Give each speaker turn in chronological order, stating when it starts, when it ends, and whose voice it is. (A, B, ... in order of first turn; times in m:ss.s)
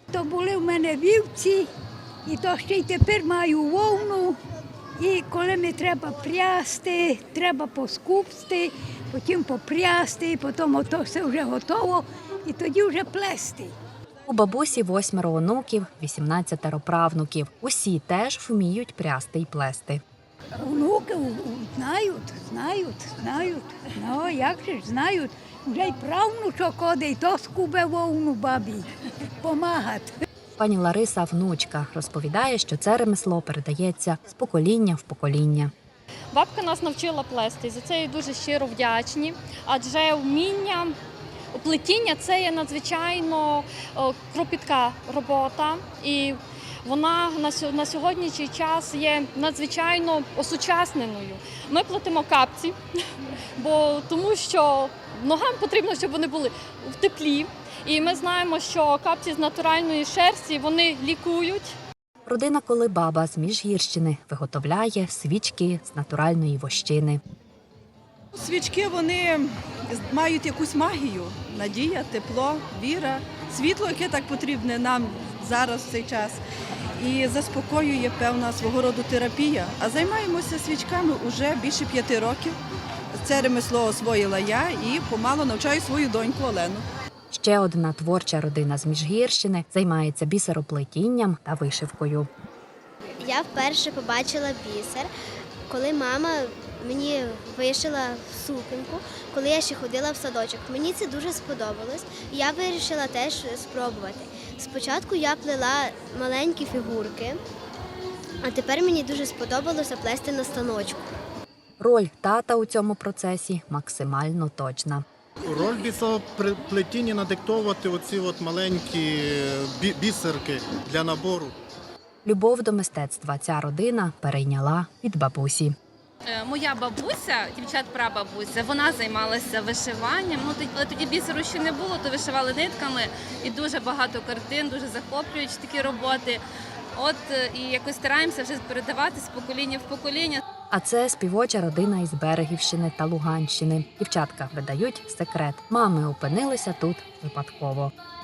0:00.1-0:01.6 A
0:02.3-0:04.4 A
0:05.0-0:13.7 A
0:14.2-0:20.0 B
0:20.6-0:28.8 A
0:29.5-0:30.1 A
0:30.6-0:35.7 B
0:36.3-0:41.0 C
0:41.5-0:52.8 C
0:53.6-1:01.8 C
1:02.3-1:07.2 B
1:08.3-1:16.4 D
1:17.0-1:22.6 D
1:23.2-1:26.8 D
1:27.3-1:32.3 B
1:33.2-1:35.1 E
1:35.7-1:47.4 E
1:48.4-1:51.1 E
1:51.8-1:55.0 B
1:55.4-2:01.5 F
2:02.2-2:05.8 B
2:06.2-2:16.4 G
2:17.0-2:20.4 G
2:20.7-2:27.9 B